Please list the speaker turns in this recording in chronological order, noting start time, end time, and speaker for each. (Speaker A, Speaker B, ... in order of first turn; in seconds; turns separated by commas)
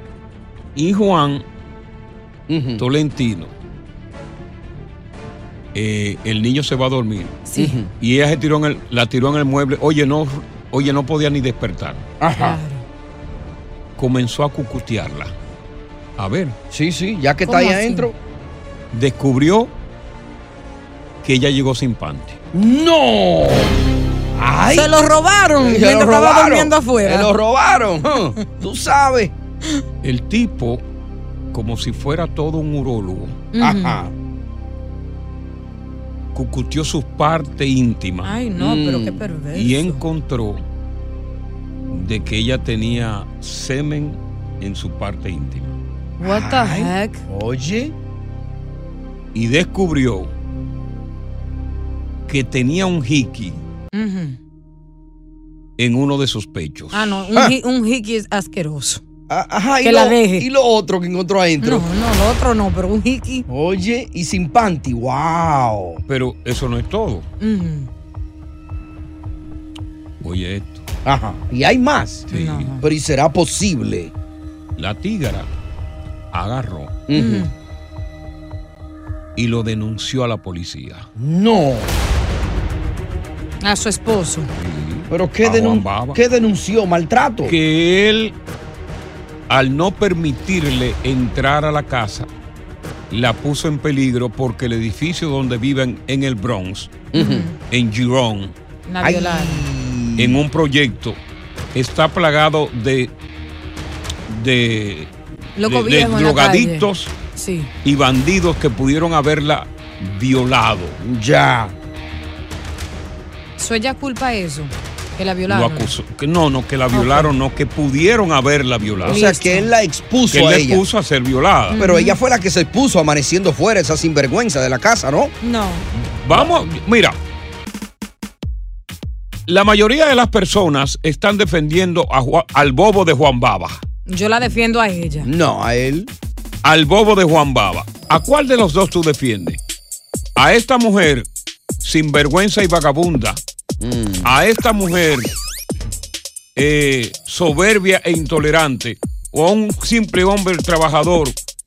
Speaker A: 0.7-1.4, Speaker B: 2.5-2.8, Speaker A: 2.8-3.5, Speaker A: 5.7-7.4, Speaker C: 7.5-7.8, Speaker B: 7.5-7.9, Speaker A: 8.0-12.0, Speaker B: 12.2-12.6, Speaker C: 12.3-12.8, Speaker A: 14.0-15.3, Speaker A: 16.2-16.6, Speaker B: 16.7-18.1, Speaker C: 17.4-18.1, Speaker A: 18.9-19.7, Speaker A: 21.2-22.4, Speaker B: 22.5-23.7, Speaker B: 24.3-24.9, Speaker C: 24.7-27.3, Speaker B: 25.6-29.3, Speaker A: 30.0-30.8, Speaker A: 31.5-33.4, Speaker C: 33.5-34.0, Speaker B: 33.6-34.1, Speaker A: 36.3-38.4, Speaker C: 38.2-40.0, Speaker B: 38.6-39.2, Speaker A: 39.5-40.6, Speaker A: 41.9-45.7, Speaker C: 46.2-47.2, Speaker B: 46.2-47.9, Speaker A: 49.3-50.3, Speaker A: 52.3-53.6, Speaker C: 53.9-54.4, Speaker A: 55.8-57.1, Speaker C: 56.9-59.0, Speaker B: 59.3-61.9, Speaker C: 59.8-60.5, Speaker C: 61.6-63.5, Speaker B: 63.5-66.0, Speaker A: 66.1-67.3, Speaker C: 67.4-67.9, Speaker A: 70.2-70.8, Speaker B: 71.0-72.2, Speaker A: 72.3-72.7, Speaker C: 72.3-72.8, Speaker B: 72.8-74.1, Speaker A: 74.8-75.5, Speaker A: 76.3-77.0, Speaker B: 77.1-77.5, Speaker C: 77.1-77.5, Speaker A: 79.3-81.1, Speaker B: 81.2-82.0, Speaker C: 83.6-84.5, Speaker A: 84.5-86.2, Speaker B: 85.1-87.6, Speaker A: 87.4-88.3, Speaker A: 89.5-92.3, Speaker A: 93.1-97.0, Speaker B: 97.1-97.5, Speaker C: 97.1-97.5, Speaker A: 97.7-98.5, Speaker C: 98.9-99.7, Speaker B: 99.0-100.4, Speaker A: 100.2-101.2, Speaker A: 101.7-103.1, Speaker A: 104.3-107.1, Speaker C: 105.5-107.7, Speaker A: 107.8-111.0, Speaker B: 111.0-111.7, Speaker C: 113.6-115.9, Speaker A: 115.5-119.2, Speaker C: 116.9-117.3, Speaker B: 119.0-120.8, Speaker C: 119.1-119.7, Speaker A: 120.3-121.8, Speaker C: 121.7-122.2, Speaker B: 121.7-125.3, Speaker C: 125.4-125.9, Speaker A: 125.9-127.2, Speaker B: 126.3-126.6, Speaker A: 129.5-133.8, Speaker C: 134.1-135.3, Speaker B: 135.2-136.1, Speaker A: 136.6-139.6, Speaker A: 140.3-141.3, Speaker A: 141.8-143.4, Speaker B: 143.8-144.3, Speaker A: 144.2-145.3, Speaker A: 146.6-151.3